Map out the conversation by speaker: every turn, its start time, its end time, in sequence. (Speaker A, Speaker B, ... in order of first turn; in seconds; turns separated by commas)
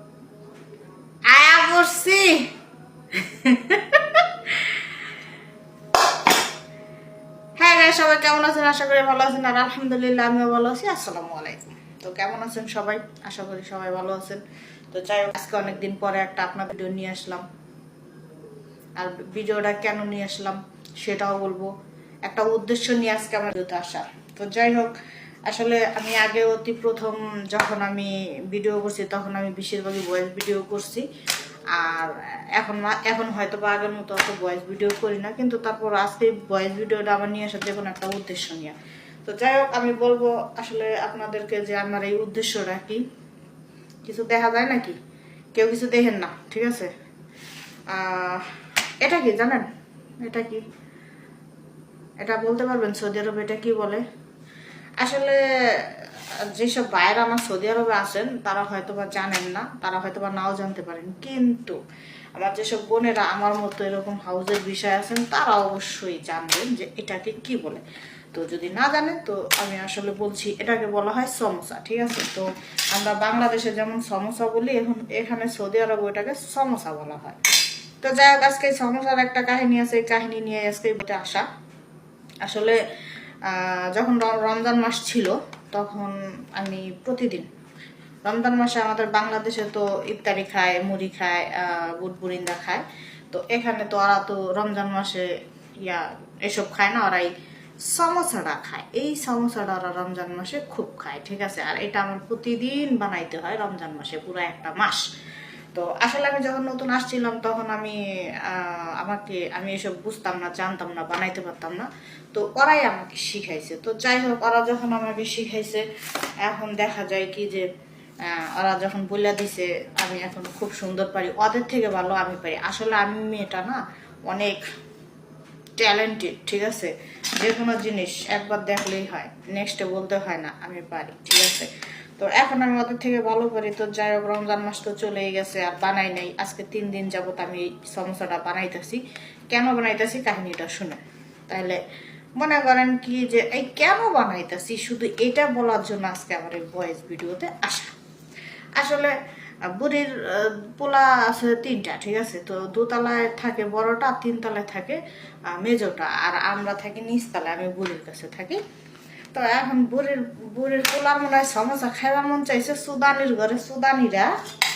Speaker A: 1.3-2.4, Speaker A: 3.1-4.8, Speaker A: 7.6-17.4, Speaker A: 19.0-21.7, Speaker A: 22.3-24.9, Speaker A: 25.5-31.1, Speaker A: 31.7-43.0, Speaker A: 44.1-45.0, Speaker A: 45.5-46.9, Speaker A: 47.9-48.5, Speaker A: 49.0-49.7, Speaker A: 50.2-50.6, Speaker A: 52.2-54.0, Speaker A: 55.0-61.8, Speaker A: 62.4-67.8, Speaker A: 68.3-77.4, Speaker A: 78.0-81.5, Speaker A: 82.5-82.8, Speaker A: 83.5-87.5, Speaker A: 88.2-95.3, Speaker A: 95.8-97.3, Speaker A: 97.8-105.1, Speaker A: 105.7-115.9, Speaker A: 116.5-117.7, Speaker A: 118.2-124.6, Speaker A: 125.8-139.0, Speaker A: 139.5-141.8, Speaker A: 142.4-147.9, Speaker A: 148.8-149.1, Speaker A: 149.7-155.0, Speaker A: 155.5-158.6, Speaker A: 159.3-164.3